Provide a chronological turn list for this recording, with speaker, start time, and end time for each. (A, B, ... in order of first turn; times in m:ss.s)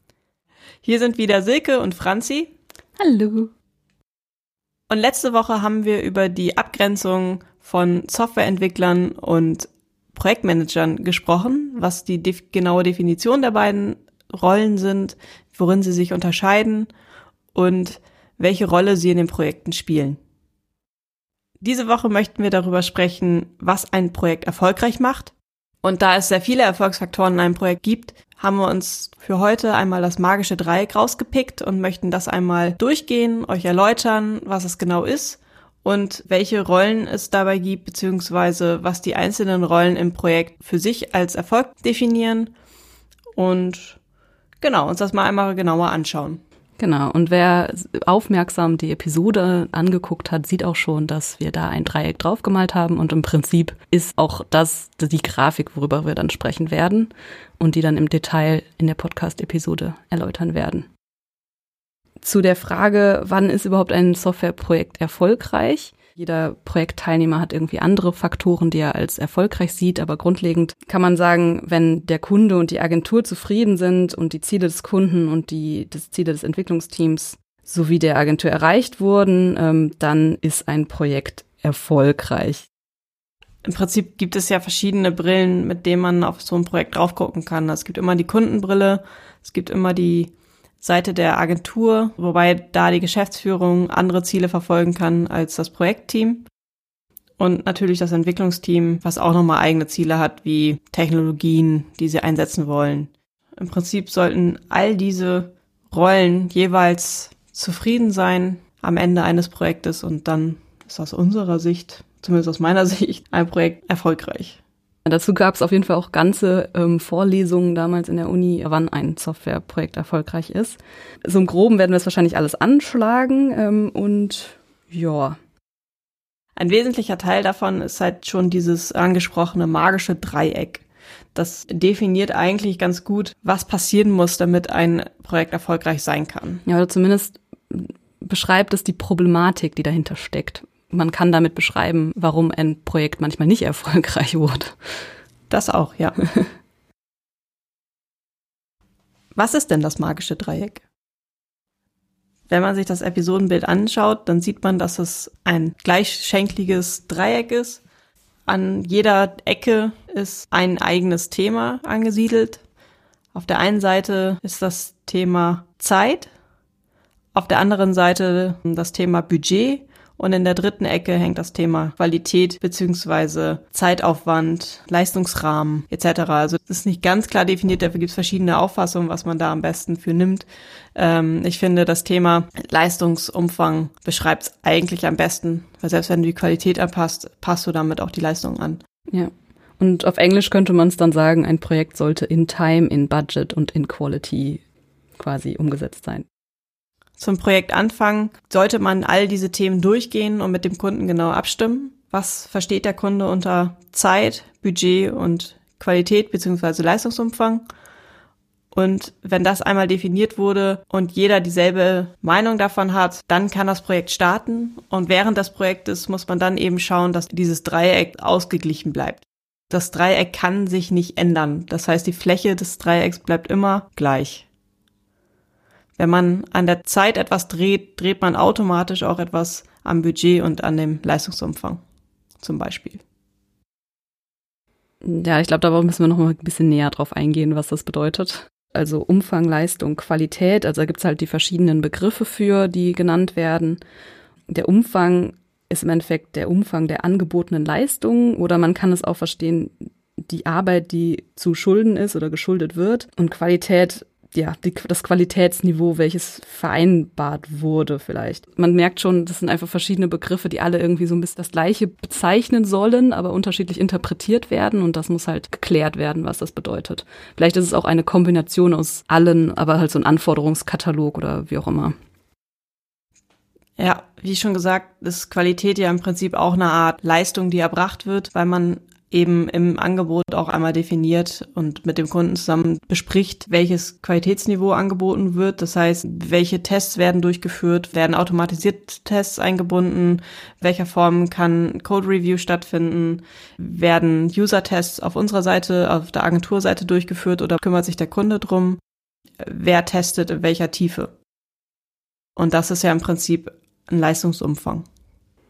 0:00.8-0:02.5 A
0:03.0-0:03.5 B
0:04.9-0:16.9 A
0:17.5-0:20.2 A
0:21.6-0:42.5 A
0:43.4-0:44.0 A
0:44.6-0:46.4 A
0:46.8-1:00.9 B
1:02.2-1:22.6 B
1:23.6-1:30.3 A
1:30.8-1:36.5 A
1:37.4-1:54.6 A
1:55.0-2:05.4 B
2:06.6-2:10.8 A
2:11.3-2:16.6 A
2:16.6-2:25.1 B
2:25.5-2:26.2 A
2:29.4-2:30.8 A
2:32.5-2:37.8 A
2:38.5-2:42.6 A
2:43.3-2:46.3 A
2:47.3-3:08.8 A
3:09.1-3:14.6 B
3:15.2-3:16.2 B
3:17.2-3:27.6 A
3:28.7-3:44.4 A
3:46.0-3:51.8 A
3:52.4-3:53.0 A
3:55.0-4:03.8 B
4:04.5-4:31.9 B
4:33.8-4:58.8 A
4:59.4-5:01.1 A
5:02.4-5:04.8 A